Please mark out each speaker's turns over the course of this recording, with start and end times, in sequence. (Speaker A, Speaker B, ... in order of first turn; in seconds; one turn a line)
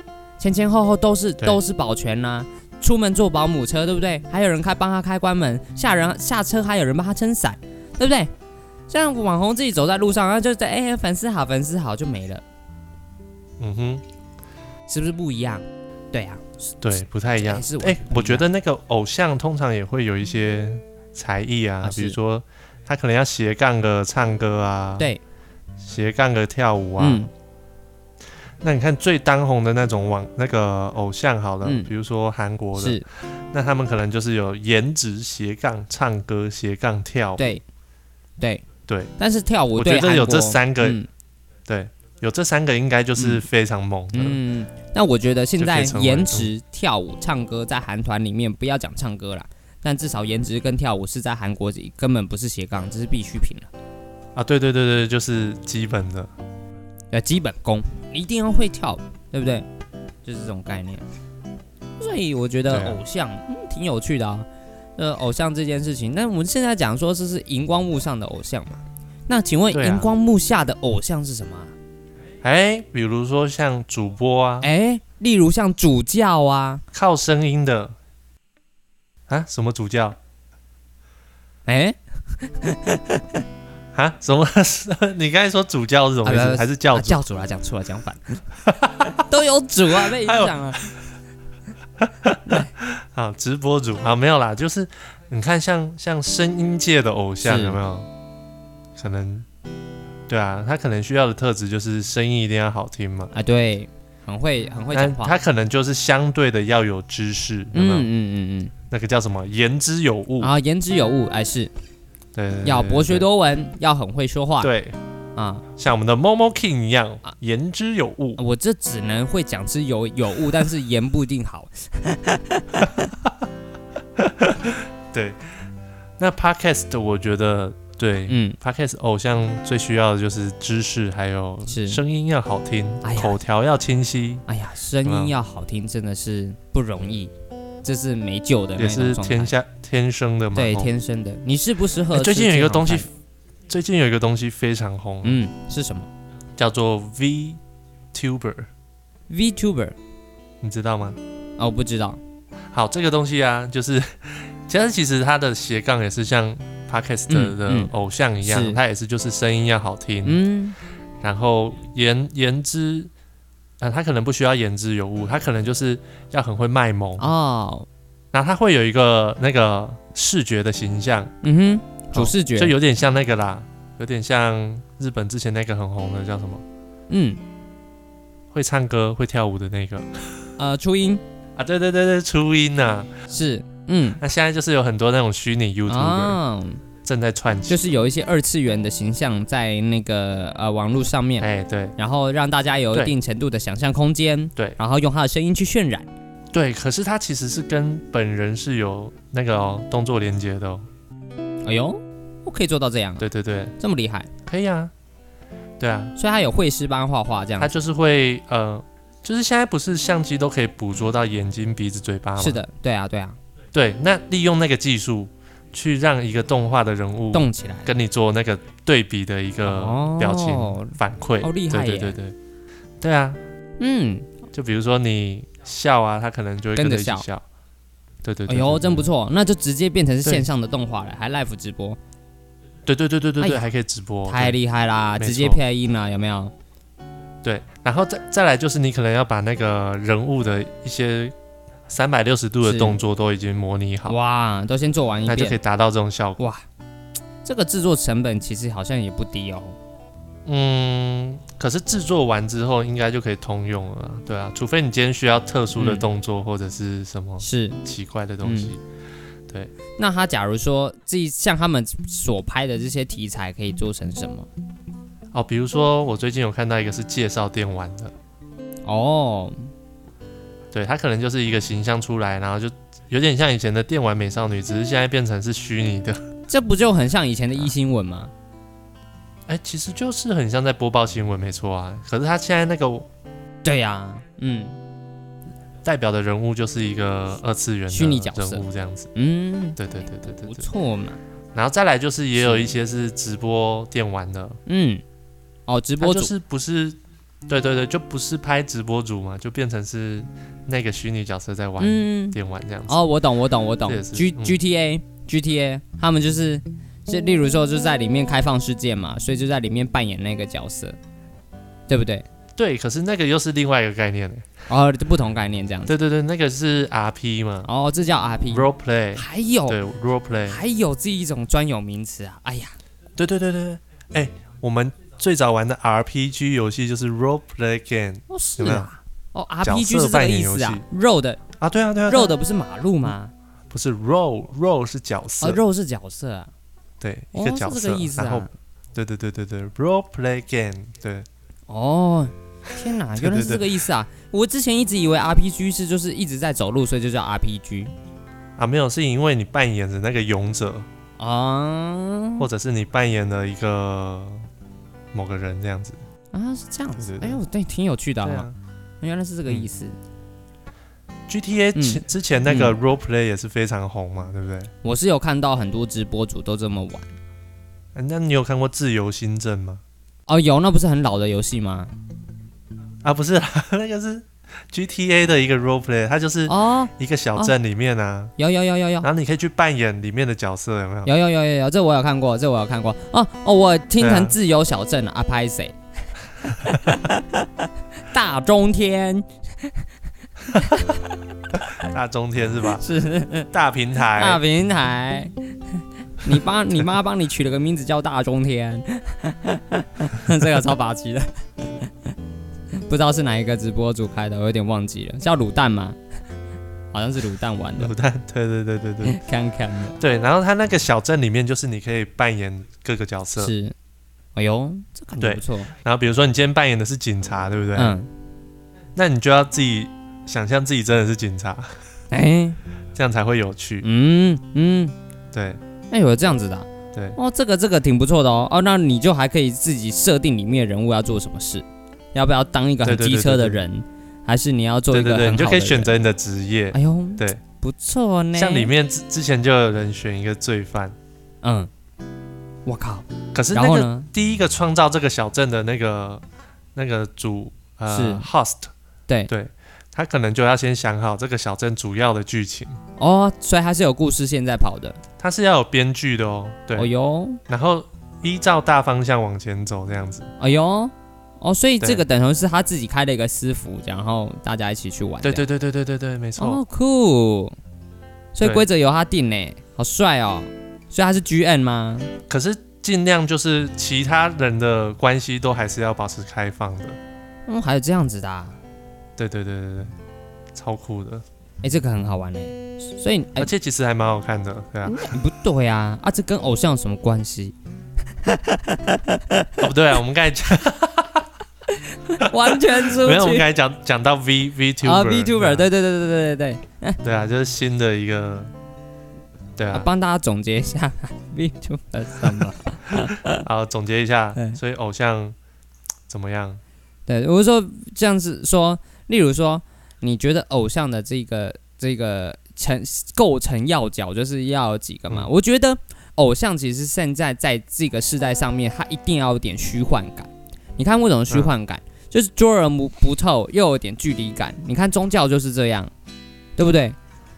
Speaker A: 0.4-8.3
Speaker A: 8.9-12.4
Speaker B: 13.6-14.0
Speaker A: 14.9-16.7
Speaker B: 16.8-25.1
Speaker A: 17.4-18.4
Speaker A: 21.8-22.2
Speaker B: 25.8-27.3
Speaker A: 27.0-27.3
Speaker B: 28.6-37.6
Speaker A: 31.6-31.9
Speaker A: 32.8-33.0
Speaker A: 37.4-37.6
Speaker A: 38.4-38.6
Speaker B: 38.9-39.1
Speaker A: 39.2-41.1
Speaker B: 39.7-41.0
Speaker B: 41.7-44.4
Speaker A: 43.2-43.4
Speaker A: 44.1-53.7
Speaker B: 45.6-46.5
Speaker B: 54.3-56.3
Speaker A: 57.1-59.7
Speaker A: 60.2-61.0
Speaker A: 62.0-71.7
Speaker B: 62.7-63.0
Speaker B: 69.7-70.1
Speaker B: 72.4-74.7
Speaker A: 74.6-76.8
Speaker B: 76.9-77.9
Speaker B: 79.3-80.2
Speaker A: 81.7-83.4
Speaker B: 83.9-87.2
Speaker A: 86.2-88.4
Speaker B: 88.7-89.2
Speaker A: 89.0-90.8
Speaker B: 90.0-90.9
Speaker B: 92.0-98.1
Speaker A: 92.5-92.7
Speaker A: 97.4-97.8
Speaker B: 99.0-99.5
Speaker B: 100.3-103.3
Speaker A: 103.3-105.3
Speaker B: 104.9-108.1
Speaker A: 107.7-108.7
Speaker B: 108.9-110.5
Speaker A: 110.4-111.7
Speaker B: 112.3-113.3
Speaker A: 112.6-114.7
Speaker B: 114.6-115.0
Speaker A: 115.3-115.6
Speaker B: 115.8-118.4
Speaker A: 118.4-123.1
Speaker B: 124.2-125.4
Speaker B: 126.2-134.4
Speaker A: 128.3-128.6
Speaker A: 131.7-132.0
Speaker A: 133.0-133.3
Speaker A: 134.5-137.3
Speaker B: 135.0-135.3
Speaker A: 137.8-139.5
Speaker B: 138.8-140.9
Speaker A: 140.5-143.1
Speaker B: 142.1-143.1
Speaker B: 143.7-145.4
Speaker A: 145.2-146.1
Speaker B: 146.6-147.6
Speaker B: 148.1-148.7
Speaker A: 149.3-149.9
Speaker B: 150.6-151.2
Speaker A: 151.6-152.2
Speaker B: 152.7-160.4
Speaker A: 157.3-157.9
Speaker A: 158.4-158.8
Speaker A: 160.2-160.8
Speaker B: 161.2-163.1
Speaker B: 163.8-167.3
Speaker A: 167.2-167.9
Speaker B: 168.3-171.3
Speaker A: 171.4-172.7
Speaker B: 172.1-176.6
Speaker A: 177.1-177.4
Speaker B: 178.5-180.4
Speaker A: 180.6-181.2
Speaker B: 181.6-183.1
Speaker A: 183.3-184.2
Speaker B: 184.2-186.4
Speaker A: 185.9-186.8
Speaker B: 187.0-187.9
Speaker A: 187.7-196.1
Speaker B: 191.4-191.9
Speaker B: 196.5-200.8
Speaker A: 201.6-203.2
Speaker B: 203.2-203.7
Speaker A: 203.8-204.3
Speaker B: 204.4-204.9
Speaker B: 205.8-206.1
Speaker A: 206.2-207.7
Speaker B: 207.6-212.6
Speaker A: 212.4-213.4
Speaker B: 213.7-222.3
Speaker A: 217.3-217.9
Speaker A: 219.7-222.2
Speaker B: 223.0-223.4
Speaker A: 223.8-224.3
Speaker B: 224.5-227.4
Speaker A: 226.8-227.2
Speaker B: 228.2-229.1
Speaker A: 228.5-232.0
Speaker B: 232.8-234.6
Speaker A: 233.4-233.7
Speaker A: 234.3-236.5
Speaker B: 235.2-235.6
Speaker B: 237.4-241.3
Speaker B: 241.9-244.2
Speaker A: 242.6-243.0
Speaker A: 244.1-245.6
Speaker B: 245.3-246.4
Speaker A: 247.4-249.8
Speaker B: 250.4-258.8
Speaker A: 255.8-256.1
Speaker A: 257.4-257.8
Speaker A: 258.4-258.7
Speaker A: 260.0-264.5
Speaker B: 265.3-268.1
Speaker A: 268.9-269.7
Speaker B: 270.7-276.2
Speaker A: 276.5-278.3
Speaker B: 279.5-283.1
Speaker A: 283.6-284.8
Speaker B: 285.8-289.1
Speaker A: 287.9-288.6
Speaker A: 289.1-291.2
Speaker B: 289.8-290.6
Speaker B: 291.5-294.6
Speaker A: 292.4-292.6
Speaker A: 294.7-295.0
Speaker A: 295.7-296.3
Speaker B: 296.0-303.0
Speaker A: 301.8-302.4
Speaker A: 302.9-311.0
Speaker B: 303.9-304.6
Speaker A: 311.9-312.2
Speaker B: 312.6-314.4
Speaker A: 314.7-315.9
Speaker B: 315.9-317.7
Speaker A: 317.6-319.8
Speaker B: 318.5-320.6
Speaker A: 320.5-322.8
Speaker B: 323.1-328.9
Speaker A: 328.3-331.4
Speaker B: 329.6-330.8
Speaker B: 331.6-332.4
Speaker A: 332.1-333.3
Speaker B: 333.7-335.6
Speaker A: 335.4-336.5
Speaker B: 337.0-341.3
Speaker A: 337.3-338.5
Speaker A: 341.7-347.9
Speaker B: 343.1-343.7
Speaker B: 348.6-350.9
Speaker A: 351.2-352.5
Speaker B: 352.4-354.5
Speaker B: 355.1-356.0
Speaker A: 356.3-359.9
Speaker B: 356.9-357.4
Speaker B: 358.2-358.5
Speaker B: 361.3-364.7
Speaker A: 361.7-362.7
Speaker A: 364.8-367.1
Speaker B: 367.9-369.8
Speaker A: 370.3-371.9
Speaker B: 373.0-378.3
Speaker A: 376.5-377.5
Speaker A: 378.4-379.1
Speaker B: 379.0-381.1
Speaker A: 381.0-385.8
Speaker B: 384.0-384.4
Speaker A: 386.4-389.7
Speaker A: 390.5-391.0
Speaker B: 391.7-392.8
Speaker A: 392.8-393.5
Speaker B: 393.5-394.4
Speaker A: 394.1-395.3
Speaker A: 396.2-401.3
Speaker A: 402.8-406.0
Speaker A: 406.9-407.9
Speaker B: 407.8-409.2
Speaker A: 409.0-410.0
Speaker B: 410.0-413.5
Speaker A: 413.4-413.7
Speaker A: 414.4-415.7
Speaker B: 415.2-418.0
Speaker A: 417.8-418.1
Speaker B: 418.9-421.8
Speaker A: 422.1-422.6
Speaker B: 422.9-423.9
Speaker A: 423.8-424.9
Speaker B: 425.3-425.6
Speaker A: 425.9-435.9
Speaker B: 432.8-433.6
Speaker B: 434.9-437.4
Speaker A: 436.7-438.7
Speaker B: 438.4-440.9
Speaker A: 441.4-441.7
Speaker A: 442.6-444.1
Speaker B: 443.3-446.2
Speaker B: 446.7-448.7
Speaker A: 447.9-448.3
Speaker B: 449.3-452.8
Speaker A: 453.0-455.0
Speaker B: 455.2-456.9
Speaker A: 456.8-457.4
Speaker B: 457.5-460.3
Speaker A: 460.4-465.4
Speaker B: 465.2-466.6
Speaker A: 466.4-467.6
Speaker A: 468.3-472.1
Speaker B: 468.4-468.7
Speaker B: 472.3-477.0
Speaker A: 477.5-478.6
Speaker B: 479.2-479.9
Speaker B: 480.5-481.2
Speaker A: 481.6-483.5
Speaker B: 483.4-485.1
Speaker A: 484.9-487.5
Speaker A: 488.2-489.6
Speaker B: 489.6-491.3
Speaker A: 491.7-493.4
Speaker B: 492.2-495.7
Speaker A: 494.8-497.0
Speaker B: 497.0-498.5
Speaker B: 499.6-499.9
Speaker A: 499.7-503.4
Speaker B: 503.4-505.4
Speaker B: 506.1-506.6
Speaker A: 507.1-525.9
Speaker A: 526.6-527.0